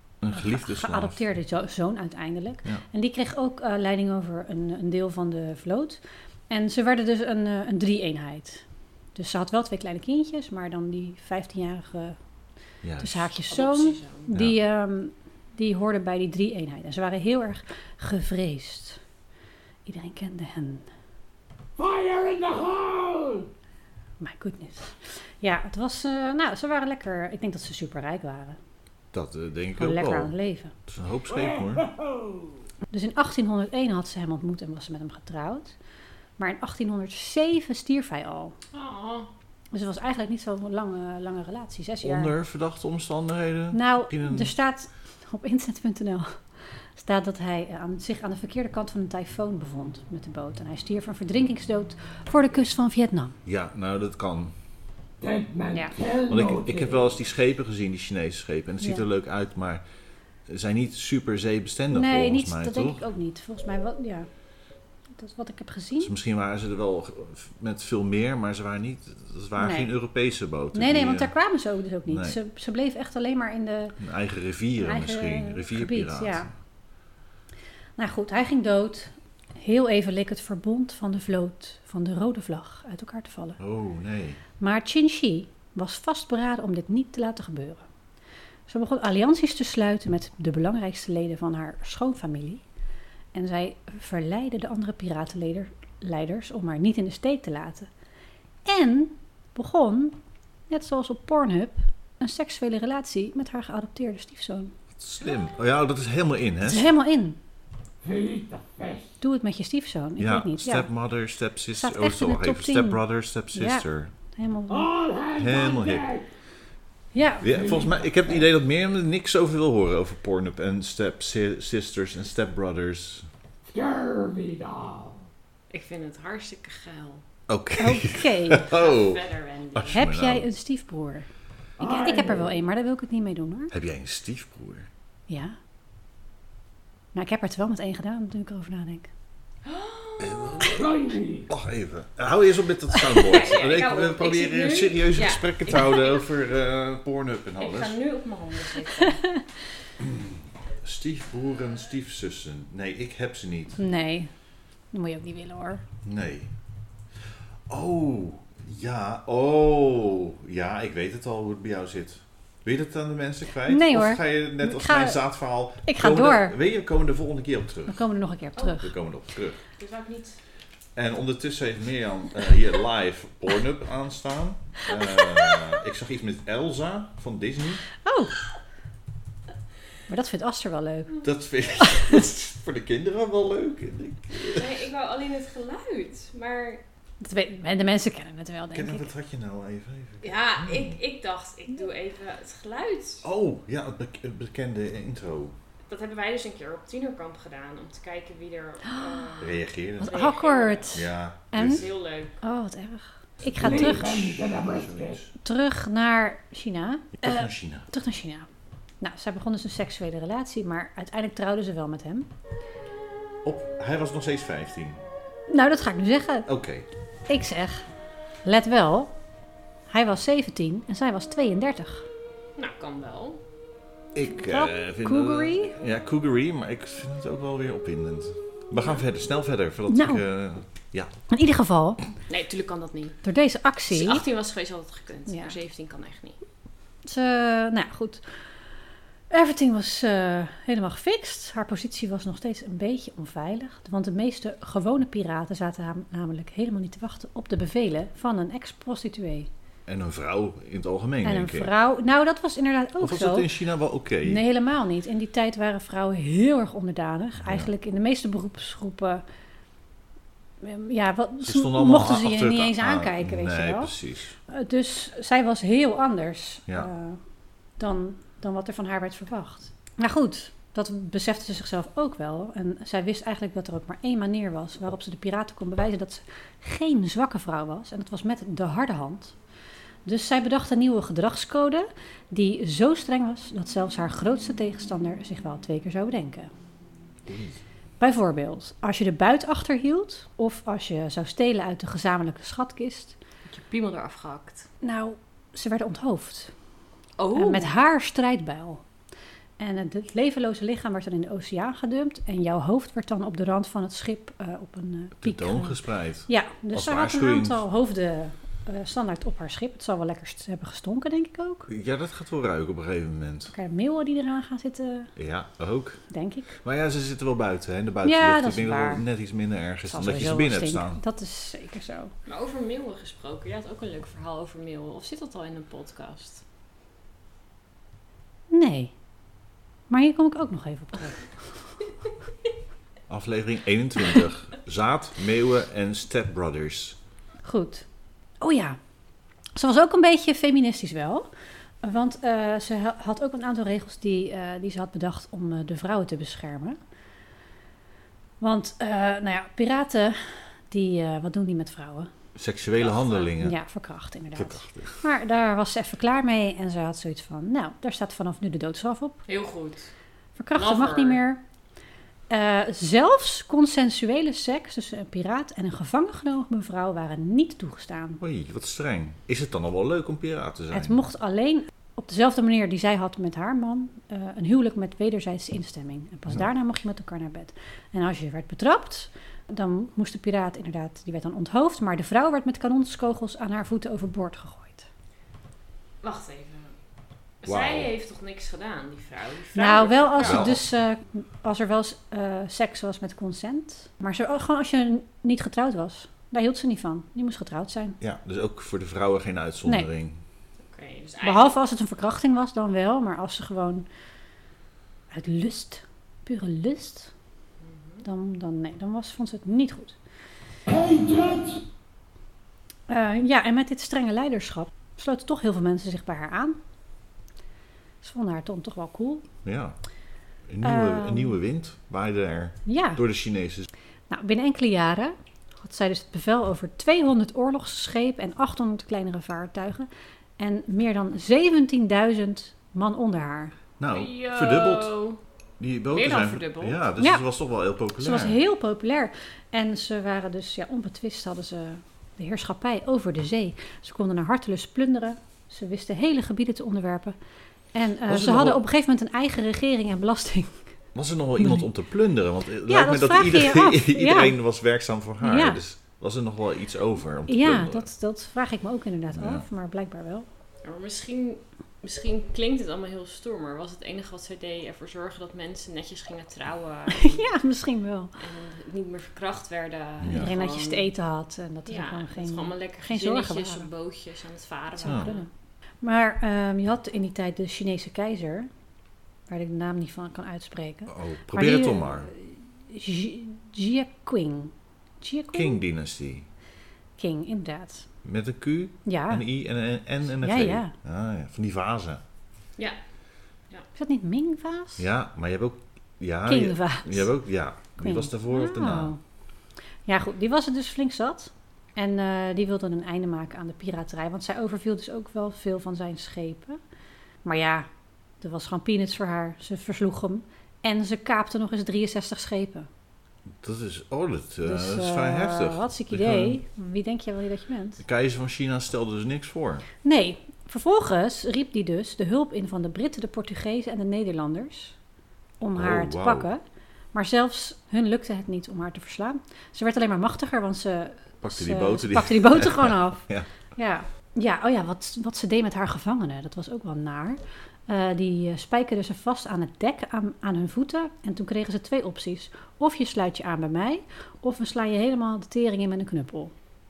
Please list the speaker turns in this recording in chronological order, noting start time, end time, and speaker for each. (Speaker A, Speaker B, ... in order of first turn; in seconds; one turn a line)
Speaker A: 0.2-1.2
Speaker B: 0.3-8.6
Speaker B: 9.2-12.2
Speaker A: 12.8-13.3
Speaker B: 13.0-19.0
Speaker C: 13.5-14.3
Speaker B: 19.9-20.9
Speaker D: 21.8-23.5
Speaker B: 24.2-28.6
Speaker A: 29.1-30.3
Speaker B: 29.8-30.7
Speaker A: 30.9-31.9
Speaker D: 31.3-32.6
Speaker B: 32.9-35.8
Speaker B: 36.4-38.6
Speaker C: 38.7-39.3
Speaker B: 39.7-42.3
Speaker A: 42.0-44.5
Speaker B: 43.7-53.4
Speaker A: 53.5-54.5
Speaker D: 55.2-57.1
Speaker A: 56.3-59.8
Speaker A: 60.5-63.0
Speaker B: 61.9-64.3
Speaker B: 65.2-66.1
Speaker A: 66.0-71.3
Speaker B: 69.6-69.9
Speaker B: 70.7-74.0
Speaker A: 72.1-72.4
Speaker A: 74.0-76.5
Speaker B: 74.8-76.5
Speaker B: 78.0-83.6
Speaker A: 83.6-84.4
Speaker B: 84.6-87.8
Speaker B: 88.7-92.6
Speaker B: 93.3-97.9
Speaker B: 98.7-100.2
Speaker B: 100.7-104.7
Speaker A: 105.0-106.9
Speaker B: 106.6-107.4
Speaker D: 108.0-109.2
Speaker B: 109.2-110.9
Speaker A: 110.2-114.1
Speaker B: 111.7-113.0
Speaker B: 113.5-114.9
Speaker D: 114.7-116.2
Speaker A: 115.4-116.1
Speaker B: 117.1-117.9
Speaker A: 117.4-123.3
Speaker D: 117.5-118.3
Speaker D: 123.7-125.2
Speaker C: 125.7-127.2
Speaker A: 127.5-130.5
Speaker B: 127.8-128.7
Speaker C: 128.7-130.0
Speaker B: 129.9-131.3
Speaker D: 131.8-132.5
Speaker B: 131.8-133.7
Speaker A: 133.7-134.9
Speaker B: 135.3-135.6
Speaker B: 137.1-139.1
Speaker C: 139.7-140.7
Speaker A: 140.2-140.8
Speaker D: 140.7-141.5
Speaker A: 141.5-148.0
Speaker C: 143.1-146.3
Speaker C: 147.6-149.2
Speaker B: 149.0-149.4
Speaker A: 150.0-153.8
Speaker B: 153.8-154.3
Speaker B: 154.9-155.8
Speaker A: 156.0-156.5
Speaker A: 157.7-168.0
Speaker B: 163.7-165.2
Speaker B: 165.8-166.6
Speaker B: 167.9-168.9
Speaker C: 168.6-168.8
Speaker A: 168.8-169.6
Speaker C: 169.8-170.4
Speaker A: 171.0-177.8
Speaker B: 178.0-178.4
Speaker B: 180.1-181.2
Speaker A: 181.2-184.7
Speaker B: 181.8-182.2
Speaker C: 184.5-186.8
Speaker B: 187.2-189.1
Speaker A: 188.7-190.9
Speaker C: 190.2-193.2
Speaker A: 193.2-195.6
Speaker C: 195.9-202.4
Speaker B: 198.9-199.2
Speaker A: 199.4-200.2
Speaker B: 200.0-201.8
Speaker A: 200.9-201.9
Speaker B: 202.4-204.3
Speaker A: 203.4-205.3
Speaker D: 203.5-205.2
Speaker B: 205.4-208.5
Speaker A: 207.2-207.9
Speaker B: 209.0-212.3
Speaker A: 213.4-215.1
Speaker B: 215.5-216.5
Speaker A: 216.5-216.9
Speaker B: 217.3-217.9
Speaker B: 218.4-219.1
Speaker B: 219.9-222.1
Speaker C: 222.6-223.4
Speaker A: 224.2-231.1
Speaker B: 224.3-225.8
Speaker B: 229.9-230.2
Speaker B: 231.3-232.0
Speaker C: 232.3-233.2
Speaker B: 233.2-234.3
Speaker C: 233.9-236.4
Speaker B: 235.3-235.6
Speaker B: 237.0-238.4
Speaker B: 239.3-249.5
Speaker A: 249.9-251.7
Speaker B: 251.2-253.5
Speaker A: 253.0-254.4
Speaker B: 254.2-259.2
Speaker A: 257.4-257.7
Speaker B: 260.6-263.9
Speaker A: 261.4-264.4
Speaker B: 264.5-267.2
Speaker B: 267.8-279.4
Speaker B: 280.1-286.5
Speaker A: 287.3-287.6
Speaker B: 288.0-293.2
Speaker C: 293.5-294.7
Speaker B: 294.8-296.5
Speaker C: 297.2-297.7
Speaker B: 297.3-298.8
Speaker B: 299.6-311.7
Speaker A: 305.2-307.6
Speaker A: 311.7-313.5
Speaker B: 313.5-315.1
Speaker A: 315.2-316.0
Speaker B: 316.1-316.6
Speaker A: 316.6-321.0
Speaker B: 318.0-319.0
Speaker B: 319.9-322.1
Speaker C: 322.3-326.4
Speaker B: 328.5-328.9
Speaker B: 329.9-331.5
Speaker A: 333.1-337.0
Speaker B: 337.4-337.9
Speaker B: 338.4-338.8
Speaker B: 339.6-341.3
Speaker B: 341.8-346.8
Speaker B: 348.4-352.1
Speaker A: 352.4-353.6
Speaker C: 352.8-353.3
Speaker B: 353.4-359.2
Speaker A: 354.4-355.1
Speaker C: 359.3-359.9
Speaker B: 360.4-361.4
Speaker C: 360.5-361.2
Speaker B: 362.3-368.2
Speaker A: 368.2-371.0
Speaker B: 370.7-384.9
Speaker C: 386.0-386.8
Speaker C: 387.4-390.6
Speaker A: 387.5-387.9
Speaker B: 389.6-398.0
Speaker A: 390.2-390.6
Speaker A: 398.0-400.2
Speaker C: 400.7-401.6
Speaker B: 401.2-403.9
Speaker B: 405.1-407.1
Speaker C: 407.6-408.1
Speaker B: 408.0-410.0
Speaker D: 410.7-411.6
Speaker B: 412.9-416.6
Speaker B: 418.0-419.3
Speaker A: 419.4-419.8
Speaker A: 420.5-423.7
Speaker B: 420.6-421.4
Speaker B: 422.7-423.0
Speaker B: 424.1-433.6
Speaker A: 433.8-434.9
Speaker C: 433.9-435.2
Speaker A: 435.6-438.4
Speaker C: 435.9-436.8
Speaker B: 437.0-437.2
Speaker B: 438.0-447.2
Speaker B: 447.7-450.7
Speaker A: 448.1-448.6
Speaker A: 450.9-457.9
Speaker B: 451.4-451.7
Speaker B: 452.7-454.4
Speaker B: 455.2-455.6
Speaker B: 457.3-460.3
Speaker A: 459.1-459.4
Speaker C: 460.6-467.3
Speaker B: 466.9-468.2
Speaker C: 468.2-470.9
Speaker B: 470.1-473.7
Speaker C: 471.7-475.3
Speaker B: 474.8-475.3
Speaker B: 475.8-478.5
Speaker B: 479.3-485.6
Speaker A: 480.9-482.1
Speaker A: 485.3-486.3
Speaker B: 487.0-487.9
Speaker A: 488.0-492.0
Speaker B: 488.9-489.2
Speaker B: 490.2-490.7
Speaker B: 493.8-494.9
Speaker A: 494.8-498.9
Speaker B: 496.3-497.1
Speaker B: 497.8-499.0
Speaker B: 499.9-506.6
Speaker B: 507.2-507.7
Speaker B: 508.2-512.7
Speaker A: 513.4-516.4
Speaker B: 514.4-517.8
Speaker A: 517.8-519.7
Speaker B: 519.8-524.8
Speaker B: 525.4-526.4
Speaker A: 525.5-526.3
Speaker B: 526.9-546.3
Speaker A: 531.2-533.3